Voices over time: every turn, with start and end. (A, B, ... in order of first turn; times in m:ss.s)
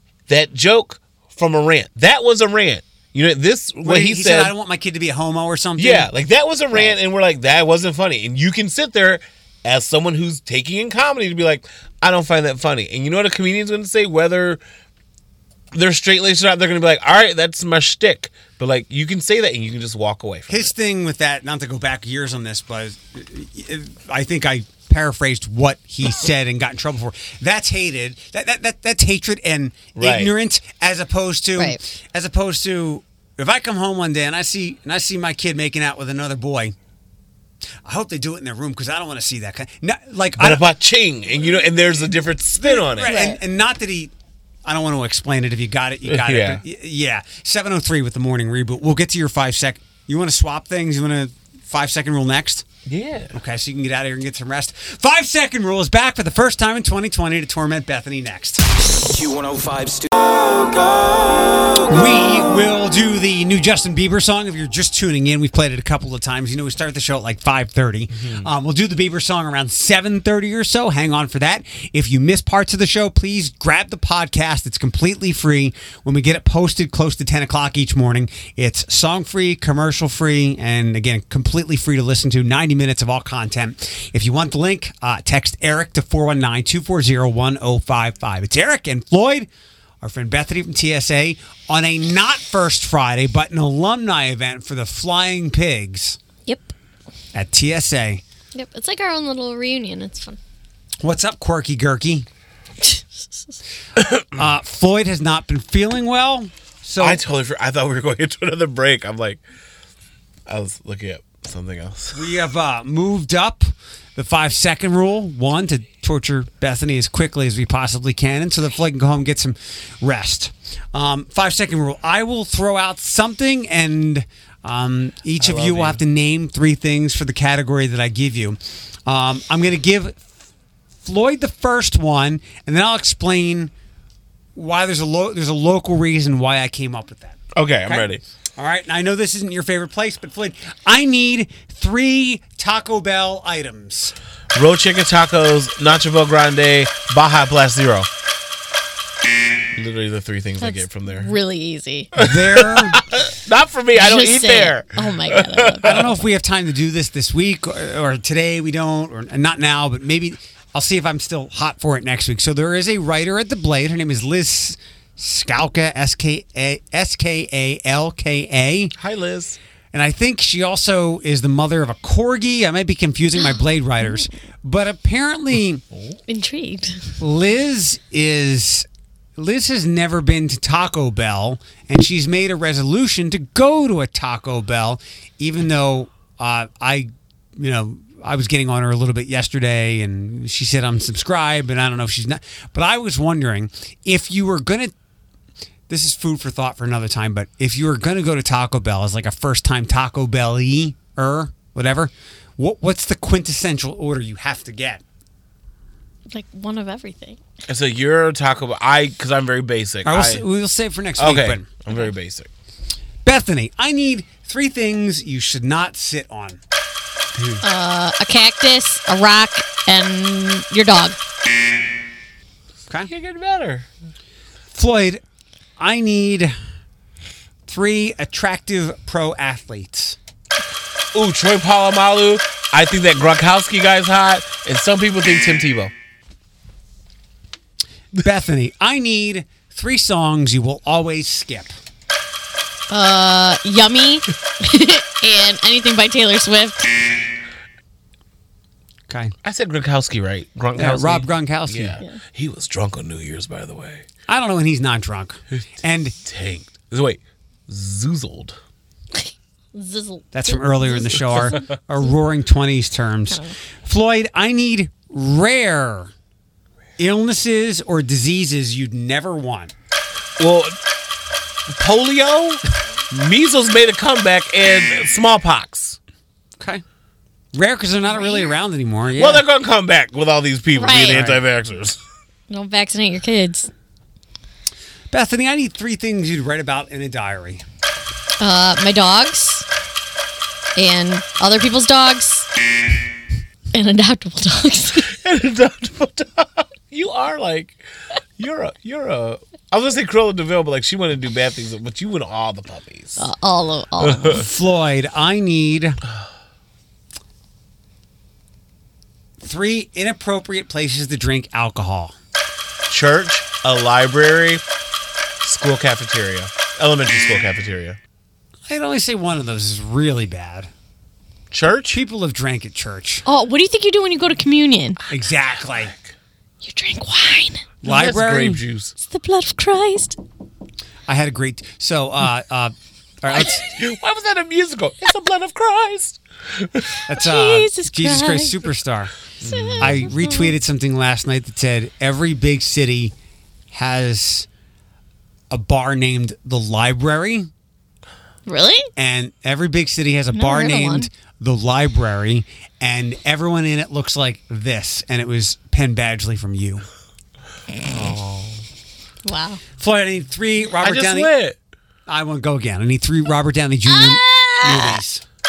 0:00.3-0:04.5 A
0:03.8-0:06.1 B
0:05.8-0:14.6 A
0:15.7-0:20.7 A
0:20.5-0:36.7 B
0:30.0-0:30.3 A
0:37.8-0:40.6 B
0:40.4-0:43.2 A
0:42.6-0:44.1 B
0:43.0-0:43.4 C
0:44.6-0:52.7 B
0:46.0-0:46.6 A
0:52.9-0:53.4 A
0:53.3-0:58.6 B
0:59.0-1:01.9 D
1:01.8-1:29.5 B
1:08.2-1:08.5 A
1:30.0-1:36.2 B
1:36.4-1:36.7 C
1:37.3-1:38.2 B
1:38.5-1:40.4 C
1:41.0-1:42.3 B
1:42.8-1:43.6 C
1:44.0-1:44.3 A
1:44.3-1:47.2 B
1:47.0-1:49.4 A
1:50.5-1:52.2 A
1:52.1-2:10.2 B
2:05.4-2:06.0 A
2:11.0-2:13.7 B
2:14.6-2:24.1 B
2:17.6-2:18.2 A
2:24.5-2:28.1 A
2:29.7-2:31.3 A
2:30.6-2:32.1 C
2:32.2-2:33.0 B
2:32.2-2:36.0 A
2:34.0-2:36.2 C
2:35.8-2:49.0 B
2:49.0-2:49.6 A
2:49.9-2:55.8 B
2:55.9-2:56.2 A
2:56.3-2:57.2 C
2:57.2-3:14.9 B
3:15.9-3:25.0 B
3:26.3-3:27.4 C
3:27.7-3:30.4 A
3:30.0-3:31.7 B
3:31.2-3:32.5 A
3:33.2-3:36.6 B
3:37.3-3:37.6 B
3:37.6-3:41.2 C
3:43.0-3:43.9 A
3:44.7-3:45.2 B
3:45.8-3:46.6 B
3:47.7-3:50.2 B
3:51.1-3:55.9 A
3:58.2-4:01.8 B
4:02.9-4:07.1 C
4:09.1-4:09.3 B
4:09.4-4:14.0 A
4:10.8-4:12.0 B
4:14.3-4:16.2 B
4:16.2-4:18.6 A
4:19.1-4:21.6 C
4:20.3-4:26.1 B
4:23.3-4:23.6 C
4:27.0-4:29.7 B
4:30.4-4:30.7 A
4:31.7-4:36.0 A
4:36.6-4:36.8 B
4:37.5-4:39.4 B
4:39.1-4:42.0 A
4:40.8-4:41.2 C
4:40.9-4:41.4 B
4:42.5-4:43.7 C
4:45.1-4:47.6 B
4:48.4-4:49.7 C
4:50.8-4:52.5 C
4:53.7-4:55.1 C
4:55.1-4:57.8 A
4:58.4-5:03.3 A
5:03.2-5:04.4 C
5:04.0-5:04.4 A
5:04.3-5:06.0 B
5:09.4-5:12.1 B
5:12.9-5:14.6 A
5:15.4-5:18.0 A
5:18.7-5:20.7 B
5:21.5-5:22.0 A
5:21.9-5:23.2 B
5:23.2-5:25.0 C
5:25.1-5:25.9 B
5:25.8-5:26.1 A
5:26.6-5:27.7 C
5:27.8-5:28.6 B
5:27.8-5:28.9 A
5:29.0-5:30.2 C
5:31.1-5:33.6 B
5:33.3-5:37.0 A
5:37.0-5:39.1 B
5:37.2-5:38.6 C
5:39.4-5:40.1 A
5:39.4-5:40.5 C
5:39.8-5:43.1 B
5:43.7-5:44.5 B
5:45.5-5:47.5 B
5:48.4-5:48.9 C
5:49.0-5:56.8 B
5:50.3-5:51.1 C
5:57.8-5:58.6 A
5:59.3-5:59.6 C
5:59.8-6:01.3 B
6:00.7-6:01.6 A
6:02.1-6:05.2 B
6:03.9-6:05.0 C